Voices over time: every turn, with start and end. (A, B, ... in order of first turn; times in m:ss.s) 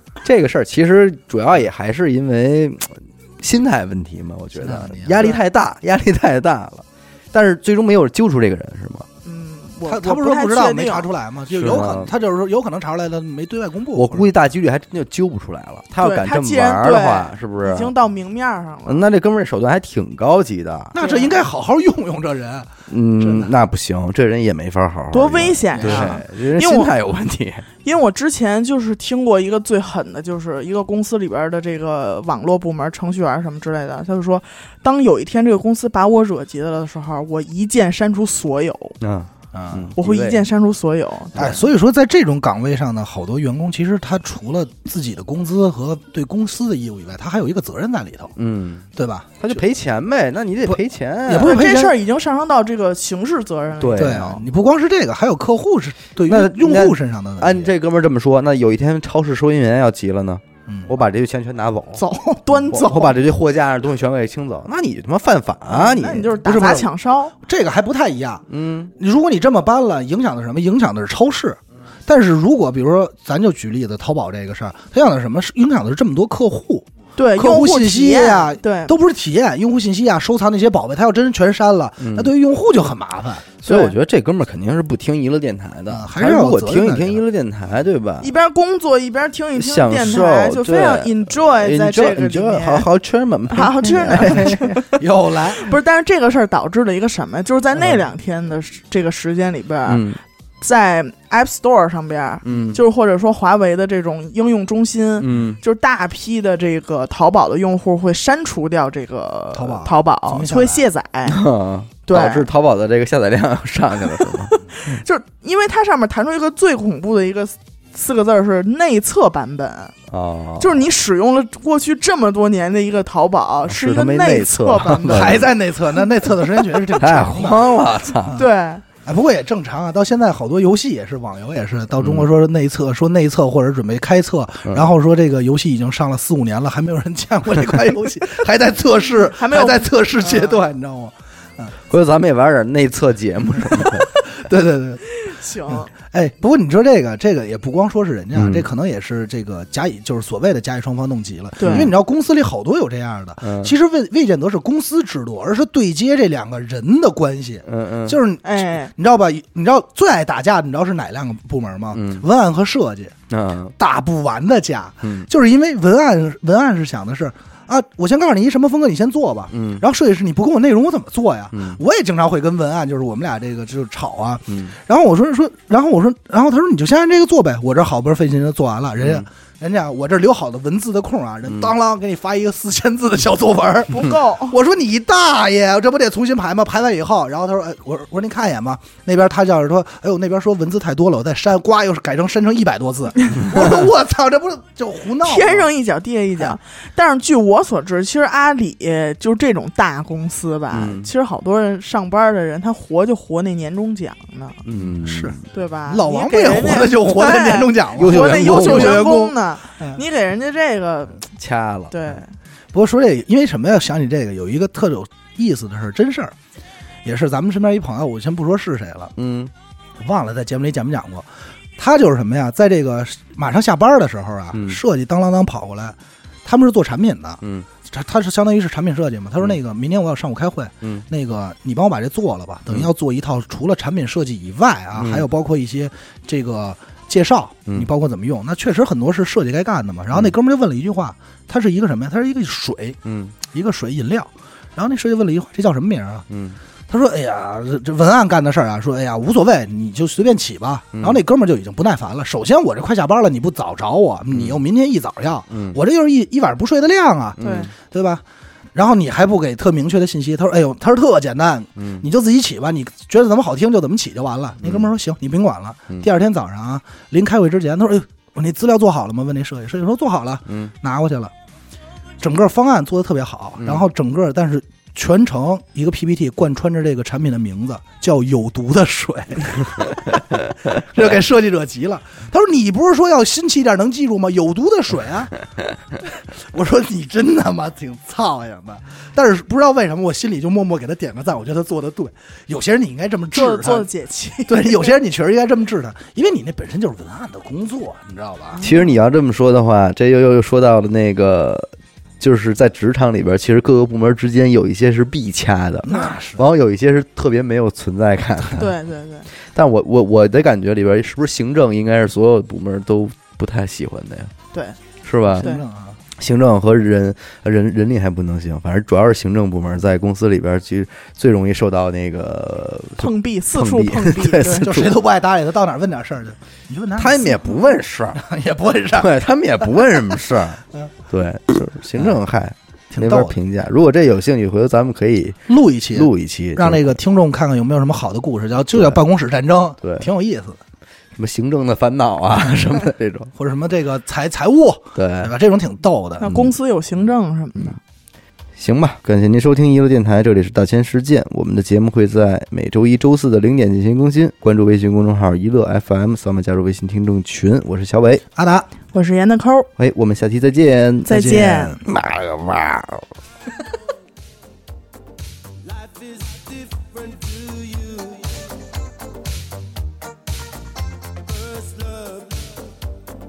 0:00.2-0:09.1 A
0:04.6-0:05.4 B
0:09.2-0:11.1 C
0:09.9-0:14.3 B
0:11.5-0:12.1 A
0:14.0-0:17.9 A
0:16.0-0:19.0 C
0:18.9-0:21.0 A
0:20.9-0:23.5 B
0:21.0-0:21.3 C
0:22.9-0:27.7 A
0:25.1-0:26.9 C
0:25.7-0:26.2 B
0:27.8-0:39.0 C
0:39.0-0:40.4 A
0:39.5-0:39.9 B
0:40.0-0:41.6 C
0:41.4-0:48.3 B
0:48.4-0:48.9 A
0:49.0-0:49.6 B
0:49.4-0:51.8 A
0:50.6-0:52.0 B
0:51.4-0:54.4 C
0:53.8-0:54.2 A
0:54.0-0:57.7 B
0:56.3-1:06.9 A
1:02.0-1:03.2 C
1:05.7-1:07.4 C
1:07.4-1:23.5 B
1:08.5-1:08.9 A
1:17.2-1:18.9 C
1:22.0-1:22.3 A
1:23.6-1:28.3 A
1:23.7-1:24.0 C
1:25.9-1:27.2 B
1:28.2-1:32.9 C
1:29.6-1:34.8 A
1:33.5-1:40.1 C
1:35.0-1:35.7 B
1:39.9-1:40.2 A
1:40.6-1:51.4 C
1:42.4-1:42.8 A
1:45.2-1:45.6 A
1:49.5-1:50.8 B
1:51.3-1:54.6 A
1:52.1-1:52.5 C
1:54.2-2:00.0 C
2:00.1-2:00.7 A
2:00.6-2:05.5 C
2:03.7-2:05.5 A
2:05.0-2:07.7 B
2:07.0-2:08.4 A
2:08.4-2:08.8 C
2:09.0-2:21.7 B
2:12.0-2:12.3 A
2:19.4-2:20.6 C
2:21.9-2:24.1 A
2:23.8-2:25.1 B
2:25.1-2:25.9 C
2:25.7-2:43.2 B
2:28.4-2:28.7 A
2:31.6-2:31.9 C
2:31.6-2:31.9 A
2:33.4-2:33.7 A
2:37.6-2:38.2 A
2:38.4-2:38.9 C
2:41.9-2:42.2 A
2:43.3-2:43.7 A
2:43.8-3:15.7 B
2:45.0-2:45.3 A
2:49.5-2:49.8 A
2:51.5-2:51.8 A
2:54.5-2:54.7 A
2:59.0-2:59.3 A
3:03.9-3:04.6 C
3:15.2-3:24.6 C
3:20.7-3:21.1 A
3:24.6-3:25.4 A
3:24.8-3:25.4 B
3:25.5-3:31.2 C
3:25.9-3:30.0 B
3:27.9-3:29.3 A
3:31.4-3:32.0 A
3:31.9-3:32.3 C
3:32.7-3:36.4 B
3:37.0-3:39.1 B
3:39.2-3:39.5 A
3:40.0-4:06.3 B
3:44.5-3:44.8 A
3:47.4-3:47.7 A
3:55.0-3:55.3 A
4:03.0-4:03.3 A
4:06.3-4:06.6 A
4:06.9-4:18.2 B
4:11.0-4:11.2 A
4:14.3-4:14.6 A
4:15.5-4:15.8 A
4:17.4-4:17.7 A
4:17.4-4:17.7 C
4:18.7-4:31.3 B
4:21.8-4:22.1 A
4:24.6-4:24.9 A
4:32.2-4:40.2 B
4:33.6-4:33.9 A
4:40.8-4:45.3 B
4:46.0-4:53.9 B
4:53.3-4:55.0 C
4:54.5-4:58.6 B
4:58.6-4:58.9 C
4:58.6-5:08.7 A
5:05.8-5:06.4 B
5:05.9-5:06.1 C
5:08.6-5:09.3 C
5:09.5-5:14.3 A
5:14.5-5:14.8 C
5:15.0-5:15.5 A
5:15.4-5:15.6 C
5:15.4-5:16.0 B
5:16.2-5:24.9 A
5:23.0-5:24.7 C
5:24.6-5:27.6 B
5:27.0-5:28.2 A
5:28.2-5:29.9 B
5:28.9-5:37.0 A
5:32.9-5:33.4 B
5:35.5-5:40.6 B
5:38.7-5:39.0 A
5:39.8-5:40.1 A
5:41.2-5:43.3 A
5:43.4-5:46.5 B
5:45.0-5:45.3 A
5:46.2-5:47.8 C
5:48.6-5:58.2 A
5:58.4-5:58.7 B
5:58.9-5:59.7 C
5:59.8-6:01.1 A
6:01.1-6:01.8 C
6:01.1-6:01.8 B
6:01.8-6:03.1 A
6:05.6-6:08.6 D
6:11.2-6:12.8 D